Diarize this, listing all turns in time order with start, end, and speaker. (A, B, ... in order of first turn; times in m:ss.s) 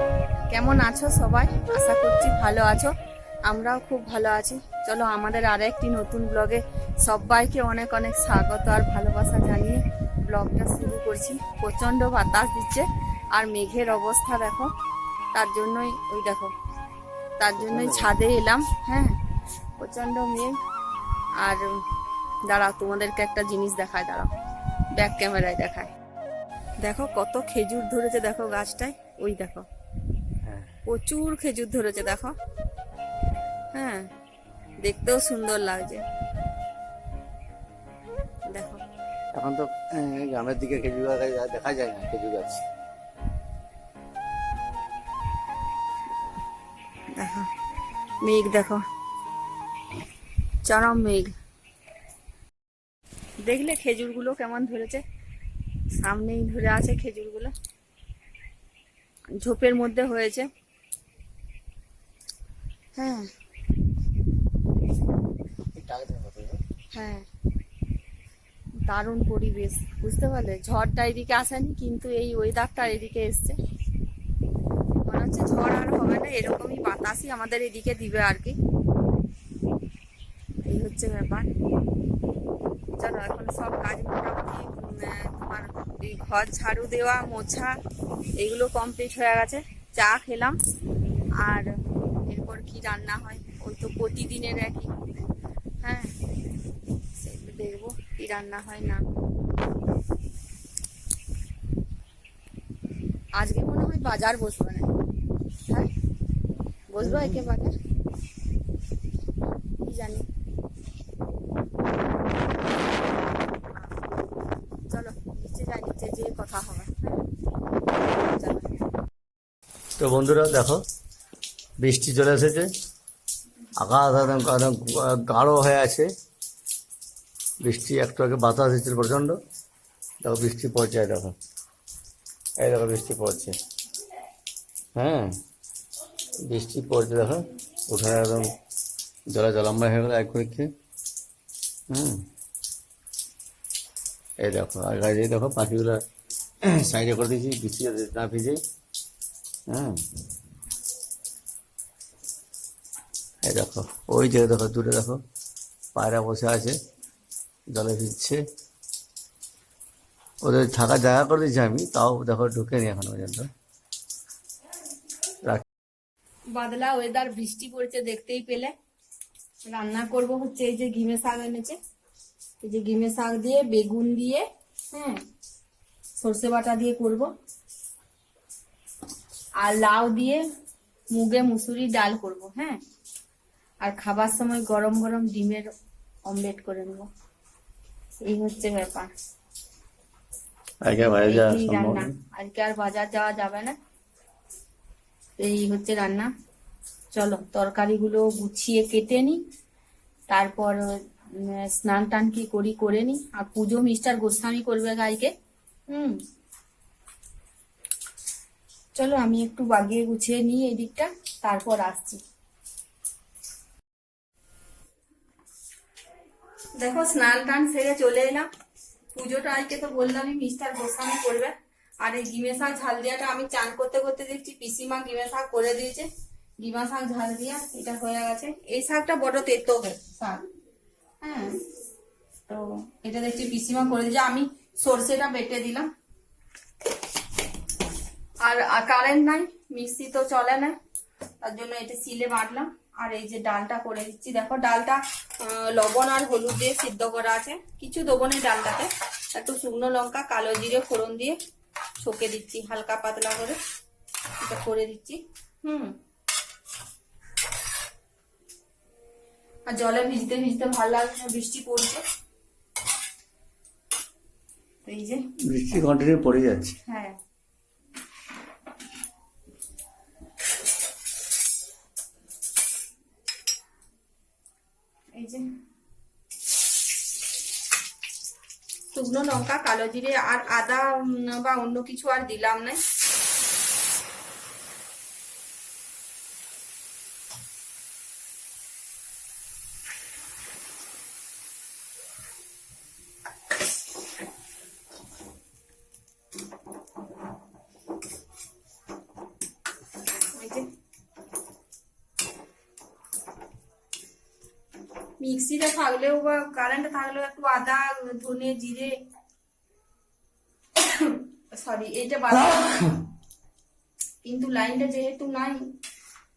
0:00.5-0:02.9 A
0:03.5-0:14.7 A
0:15.3-0:16.5 A
0:17.4-0:19.2 A
0:17.6-0:18.2 B
0:19.8-0:20.6 A
0:22.5-0:24.3 A
0:24.9-0:25.9 A
0:26.8-0:29.6 A
0:30.4-0:30.8 B
0:30.8-0:32.3 A
0:33.7-0:34.1 A
0:34.8-0:36.0 A
0:38.5-0:38.8 A
0:39.3-0:42.6 B
0:47.2-0:47.5 A
0:48.2-0:48.8 A
0:50.6-0:51.3 A
0:53.4-0:55.0 A
0:56.0-0:57.5 A
0:59.4-1:00.5 A
1:03.0-1:03.3 A
1:05.7-1:06.6 B
1:06.9-1:07.2 A
1:08.9-1:13.6 A
1:15.0-1:18.6 A
1:20.6-1:21.5 A
1:23.0-1:27.8 A
1:28.4-1:30.6 A
1:31.4-1:31.7 A
1:32.2-1:35.0 A
1:35.8-1:36.2 A
1:37.2-1:39.0 A
1:43.3-1:44.9 A
1:46.9-1:47.7 A
1:47.0-1:47.4 B
1:49.8-1:50.2 A
1:54.9-1:57.2 A
1:57.9-1:58.7 A
2:00.0-2:00.8 B
2:01.8-2:02.7 B
2:03.8-2:06.1 B
2:07.6-2:09.4 B
2:10.2-2:11.3 B
2:12.6-2:13.6 B
2:15.0-2:15.4 B
2:16.5-2:18.5 B
2:19.3-2:20.7 B
2:21.9-2:22.2 B
2:24.4-2:26.0 B
2:26.6-2:28.6 B
2:29.7-2:30.0 B
2:33.4-2:35.2 B
2:35.9-2:36.7 B
2:37.7-2:38.4 B
2:40.4-2:43.5 B
2:46.5-2:48.7 A
2:49.7-2:51.8 A
2:52.6-2:55.2 A
2:56.2-2:57.3 A
2:59.6-3:00.4 A
3:01.1-3:02.8 A
3:03.8-3:05.7 A
3:06.2-3:07.1 A
3:08.2-3:09.1 A
3:10.8-3:12.1 B
3:11.2-3:13.8 A
3:15.4-3:16.3 A
3:17.1-3:19.4 A
3:20.3-3:20.8 A
3:21.4-3:25.3 A
3:25.9-3:26.2 A
3:29.0-3:32.2 A
3:36.8-3:38.5 A
3:39.1-3:50.5 A
3:51.2-3:51.6 A
3:52.5-3:55.9 A
3:58.4-4:00.8 A
4:01.4-4:11.4 A
4:12.0-4:13.6 A
4:14.4-4:15.9 A
4:19.7-4:22.0 A
4:24.8-4:25.2 A
4:25.4-4:26.8 B
4:26.9-4:27.1 A
4:35.1-4:35.4 A
4:38.9-4:42.8 A
5:00.3-5:00.7 A
5:05.2-5:09.0 A
5:10.8-5:13.0 A
5:14.2-5:15.7 A